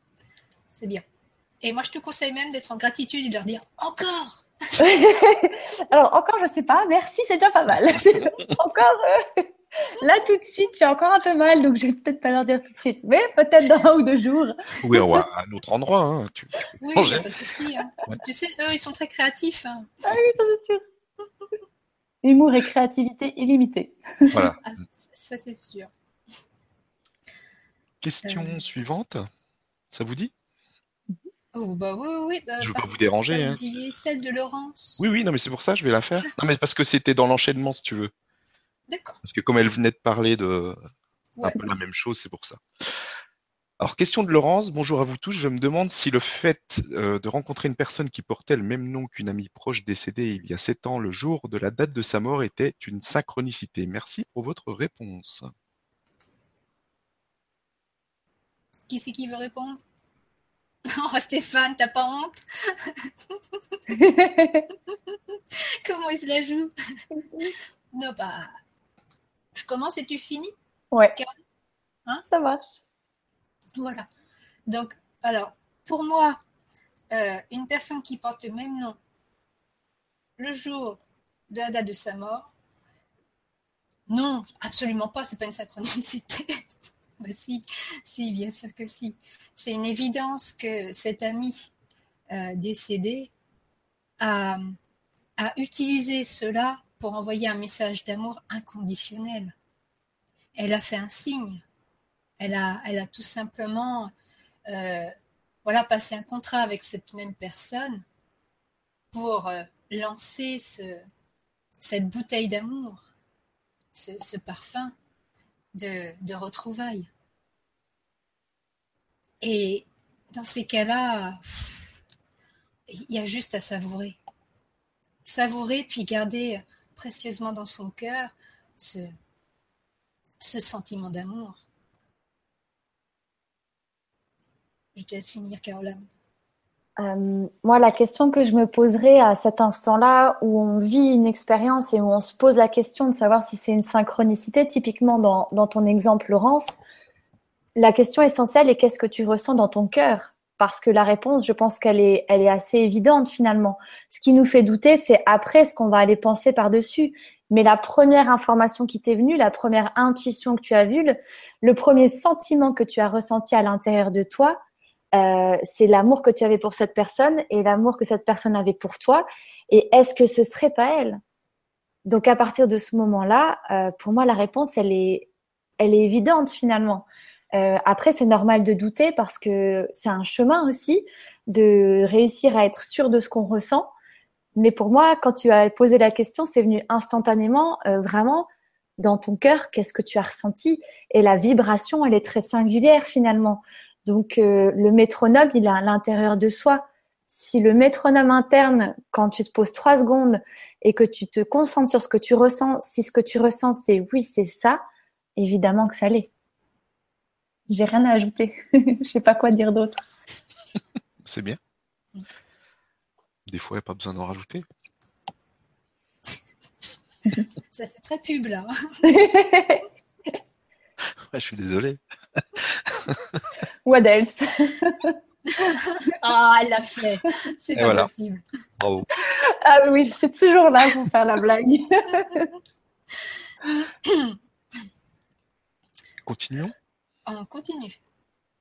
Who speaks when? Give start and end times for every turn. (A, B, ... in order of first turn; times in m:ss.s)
0:00.7-0:01.0 A
0:01.6-0:04.8 A
0:04.8-0:15.3 B
0:14.8-0:17.3 C
0:16.8-0:20.1 A
0:20.1-0:20.8 B
0:22.2-0:24.4 B
0:24.3-0:24.6 C
0:24.6-0:25.9 A
0:28.0-0:29.3 C
0:28.2-0:28.6 A
0:29.9-0:30.3 C
0:31.5-0:35.0 A
0:32.6-0:33.6 C
0:35.0-0:38.1 C
0:38.9-0:39.2 A
0:39.2-0:40.8 C
0:41.4-0:43.0 C
0:43.8-0:55.5 C
0:58.9-0:59.8 A
1:00.9-1:03.8 A
1:03.9-1:04.7 B
1:05.5-1:06.7 A
1:07.9-1:08.5 A
1:09.5-1:10.5 A
1:12.2-1:12.8 B
1:13.8-1:14.1 A
1:14.7-1:16.4 A
1:17.1-1:19.0 A
1:20.4-1:22.6 A
1:24.1-1:26.6 A
1:27.2-1:31.7 A
1:32.3-1:33.3 A
1:34.2-1:34.8 A
1:35.4-1:39.6 A
1:40.6-1:41.6 A
1:42.4-1:44.1 A
1:44.7-1:48.0 A
1:49.1-1:51.0 A
1:51.8-1:53.1 A
1:53.9-1:55.0 A
1:55.8-1:57.1 A
1:59.4-2:01.9 A
2:02.9-2:04.2 A
2:05.2-2:09.1 A
2:10.4-2:11.6 A
2:15.0-2:16.0 A
2:17.0-2:26.8 B
2:27.8-2:44.6 B
2:45.1-2:51.2 B
2:52.0-2:55.3 B
2:55.8-3:03.9 B
3:04.6-3:24.8 B
3:25.4-3:26.3 B
3:27.7-3:30.0 B
3:31.2-3:31.6 C
3:33.5-3:34.6 C
3:37.3-3:39.1 A
3:39.1-3:39.8 B
3:41.3-3:43.5 C
3:43.9-3:45.2 B
3:45.5-3:48.4 A
3:47.8-3:48.1 C
3:48.8-3:49.1 C
3:49.3-3:52.5 B
3:53.8-3:54.4 A
3:56.2-3:56.7 C
3:57.3-3:58.0 A